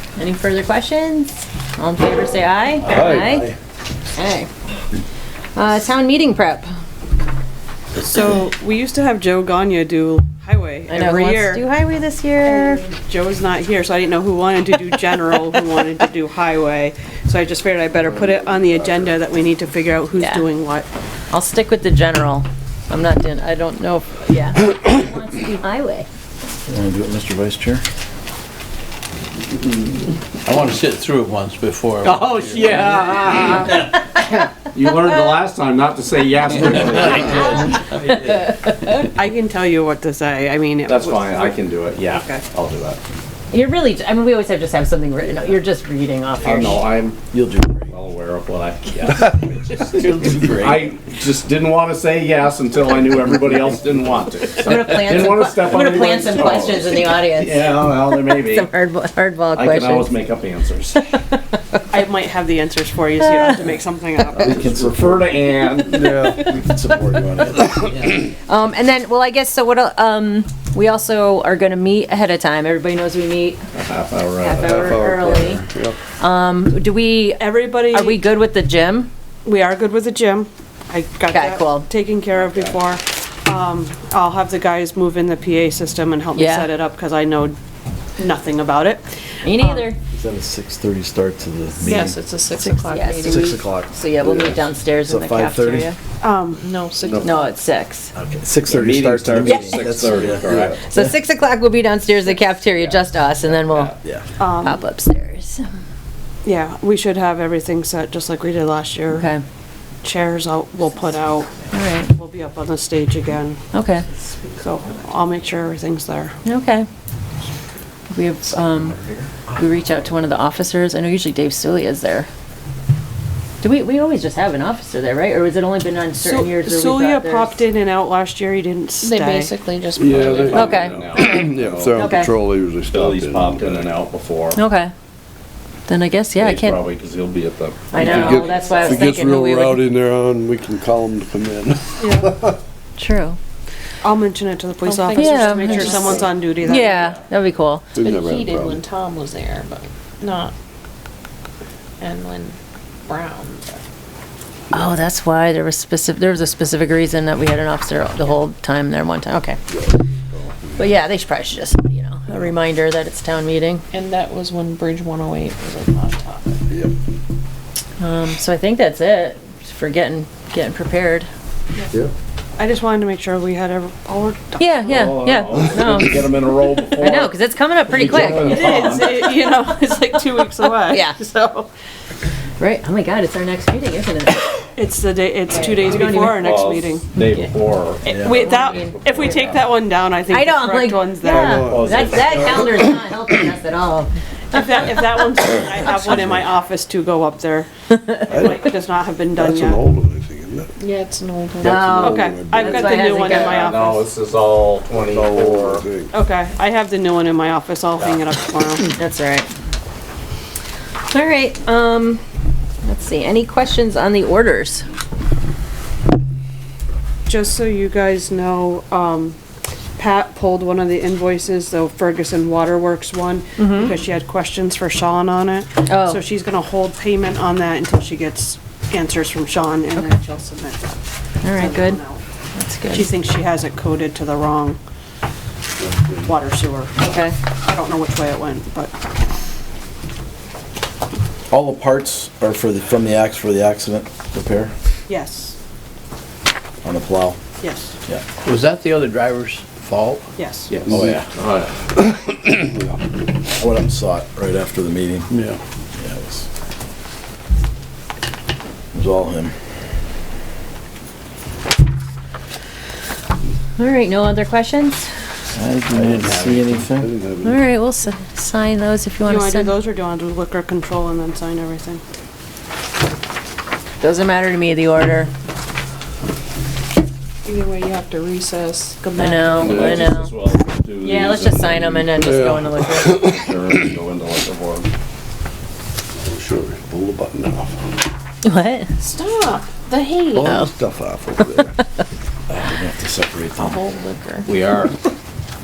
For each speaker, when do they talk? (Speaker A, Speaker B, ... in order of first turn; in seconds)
Speaker A: 0.2-3.5, 4.2-4.5, 5.5-6.7, 10.9-12.8, 20.2-20.4, 21.3-26.1, 38.3-38.7, 43.5-46.9, 54.6-60.1, 63.2-63.6, 66.0-66.4, 67.5-67.9, 68.5-73.6, 74.4-75.6, 76.2-79.1, 81.3-81.9, 86.4-86.7, 89.4-90.0, 92.6-96.0, 97.2-98.1, 99.4-104.0, 104.5-105.6, 109.1-109.4, 111.7-112.1, 113.7-114.1, 116.5-116.9, 118.1-119.0, 119.6-122.3, 123.6-127.6, 130.5-132.3, 134.5-134.9, 135.9-136.8, 137.9-139.8, 143.0-143.4, 145.2-147.8, 154.7-159.6, 160.8-163.8, 168.0-171.3, 174.6-176.3, 176.9-179.0, 180.9-181.2, 182.6-184.7, 185.5-186.6, 188.2-189.4, 190.3-195.2, 201.6-203.7, 208.8-209.5, 211.1-212.2, 212.8-214.8, 223.6-223.9, 225.8-226.2, 231.4-232.0, 232.6-233.1, 237.0-237.3, 263.8-265.1, 267.4-269.7, 274.0-275.3, 279.2-280.4, 281.0-283.2, 288.4-288.9
Speaker B: 2.9-3.5, 18.1-19.1, 64.7-65.1, 65.9-66.5, 74.6-76.0, 130.0-133.9, 137.9-142.6, 147.9-148.8, 159.7-160.8, 191.2-192.5, 198.3-198.7, 199.3-200.7, 201.6-203.2, 204.9-206.1, 235.8-236.2, 252.1-252.9, 265.9-267.6, 279.6-280.0, 282.1-283.4, 286.2-287.7, 290.3-291.7
Speaker C: 8.0-11.6, 12.9-20.9, 39.1-41.6, 42.1-42.4, 61.9-64.5, 77.4-78.2, 79.5-87.5, 88.2-89.9, 96.2-96.7, 104.4-104.8, 106.5-109.3, 110.0-113.6, 114.6-116.4, 126.2-129.5, 142.0-142.3, 144.0-147.2, 172.6-175.1, 178.3-181.7, 184.8-187.1, 188.1-191.7, 194.5-199.8, 201.9-204.1, 206.1-208.9, 217.2-219.4, 220.0-232.2, 232.9-234.8, 236.2-238.9, 245.1-245.6, 247.6-247.9, 250.4-250.8, 269.2-272.0
Speaker D: 26.7-27.8, 47.3-47.9, 64.4-65.1, 66.3-67.9, 90.1-92.2, 93.1-95.9, 98.1-100.7, 188.1-188.4, 241.5-244.7, 246.8-247.4, 250.9-251.2, 253.6-255.3, 256.0-256.5, 258.9-259.5, 265.6-267.1, 292.5-293.8
Speaker E: 30.5-32.8, 50.0-51.0, 248.4-250.2
Speaker F: 32.0-37.7, 40.9-43.0, 46.4-47.2, 47.9-58.7, 59.5-61.1, 64.4-66.1, 73.7-74.8, 97.0-97.3, 98.7-100.8, 102.7-104.0, 130.1-132.0, 132.9-134.6, 136.4-138.0, 174.8-179.4, 186.3-189.7, 191.5-192.6, 203.2-205.9, 250.7-251.8, 279.6-282.1, 283.1-284.9, 294.5-295.0
Speaker G: 91.8-93.6, 96.6-97.5, 129.0-130.7, 138.0-139.0, 144.8-146.3, 148.0-150.5, 152.0-153.8, 163.9-166.6, 200.8-202.0, 202.8-203.2, 277.4-280.0, 289.0-290.6, 293.6-294.5